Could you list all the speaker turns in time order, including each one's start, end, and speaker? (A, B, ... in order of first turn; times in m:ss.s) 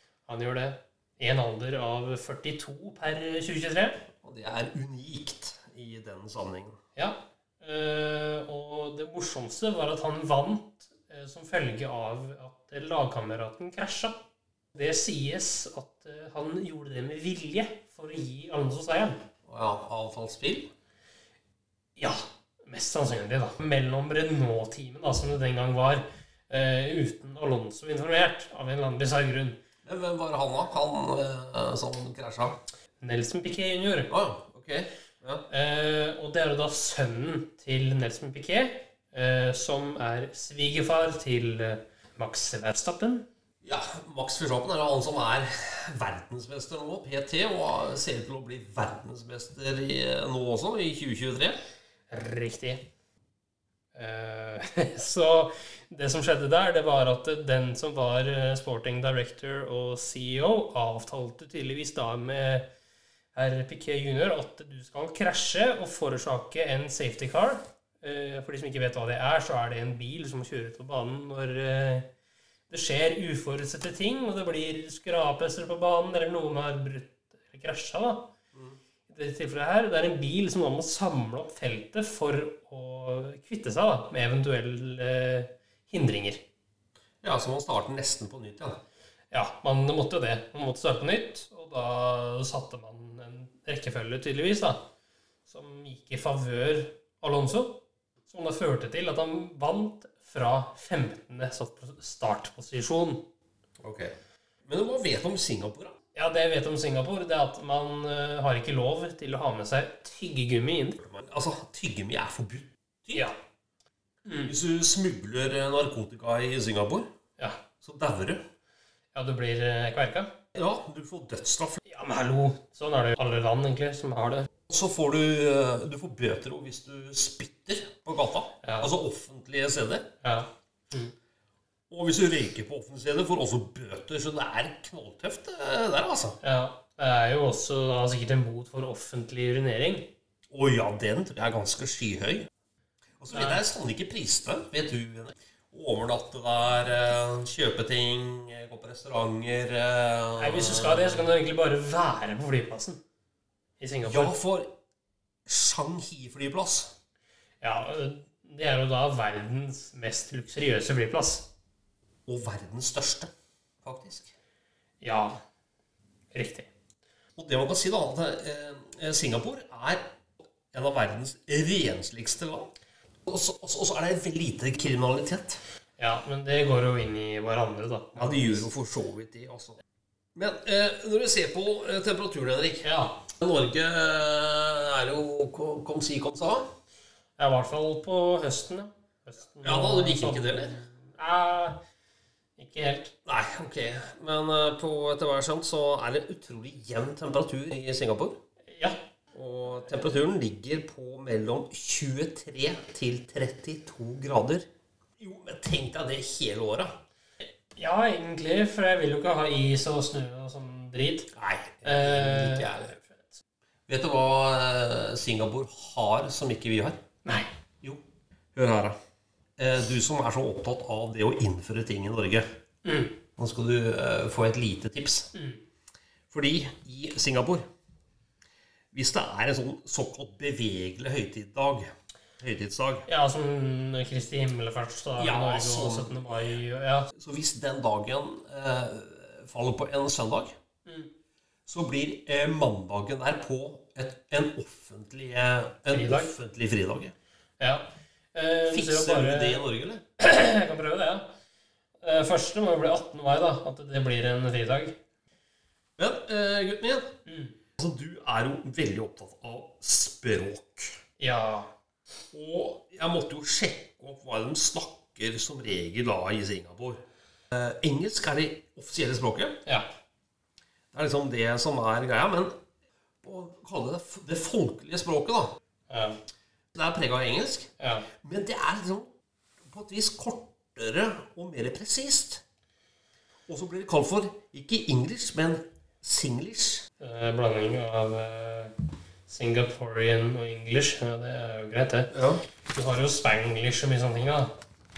0:00.3-0:04.0 A
0:04.2-0:06.8 B
0:07.0-0:14.2 A
0:14.7-0:19.2 A
0:19.5-0:20.7 B
0:22.0-0:29.6 A
0:29.9-0:32.6 B
0:33.0-0:34.1 A
0:34.1-0:35.5 B
0:35.5-0:43.3 A
0:43.6-0:51.6 B
0:52.1-0:52.8 A
0:54.0-1:02.7 A
1:03.3-1:12.1 A
1:12.7-1:18.3 A
1:19.1-1:26.4 A
1:27.2-1:28.8 B
1:29.3-1:34.8 A
1:35.5-1:43.3 A
1:43.8-1:44.1 B
1:44.6-1:46.0 B
1:46.1-1:51.0 A
1:51.0-1:53.3 B
1:54.2-1:54.5 A
1:54.5-1:57.1 B
1:57.8-1:58.4 B
1:59.1-2:00.3 A
2:00.6-2:01.8 B
2:01.9-2:04.5 A
2:04.7-2:10.1 B
2:08.6-2:08.9 A
2:10.2-2:11.1 A
2:11.9-2:16.4 B
2:16.4-2:20.1 A
2:20.5-2:22.5 B
2:23.2-2:31.3 B
2:23.3-2:23.6 A
2:30.4-2:33.0 A
2:33.8-2:34.3 A
2:34.0-2:34.7 B
2:35.5-2:37.0 B
2:37.6-2:41.5 A
2:42.3-2:43.3 B
2:43.8-2:44.3 B
2:45.0-2:45.4 A
2:46.3-2:46.7 A
2:47.4-2:50.0 B
2:50.7-2:52.7 B
2:53.3-2:55.6 B
2:56.0-2:58.7 A
2:58.2-2:59.8 B
3:00.4-3:02.8 B
3:02.8-3:03.2 A
3:03.4-3:06.6 B
3:07.4-3:11.8 A
3:09.6-3:10.8 B
3:12.6-3:13.1 A
3:13.2-3:18.4 B
3:18.7-3:19.0 A
3:19.3-3:24.7 B
3:25.2-3:27.0 B
3:27.8-3:31.3 A
3:31.3-3:32.9 B
3:31.8-3:33.4 A
3:33.9-3:37.0 B
3:38.6-3:39.0 B
3:39.6-3:42.5 B
3:42.8-3:43.2 A
3:43.4-3:45.3 B
3:45.3-3:45.6 A
3:46.3-3:47.6 B
3:48.9-3:51.9 B
3:52.4-3:53.1 B
3:53.1-3:57.1 A
3:55.2-3:56.4 B
3:57.2-4:00.6 B
4:01.7-4:07.1 B
4:05.9-4:06.3 A
4:07.6-4:09.7 A
4:08.7-4:10.0 B
4:10.2-4:11.3 A
4:12.0-4:15.0 A
4:16.0-4:17.1 B
4:17.3-4:17.5 A
4:17.8-4:20.9 B
4:21.2-4:21.7 A
4:22.3-4:27.0 B
4:27.5-4:29.6 B
4:30.9-4:32.5 B
4:33.2-4:35.6 B
4:35.9-4:36.2 A
4:36.7-4:37.7 B
4:37.8-4:38.1 A
4:38.2-4:39.1 B
4:39.7-4:42.4 B
4:43.5-4:46.9 B
4:47.0-4:48.7 A
4:49.3-4:52.1 A
4:52.1-4:52.4 B
4:52.7-4:54.5 A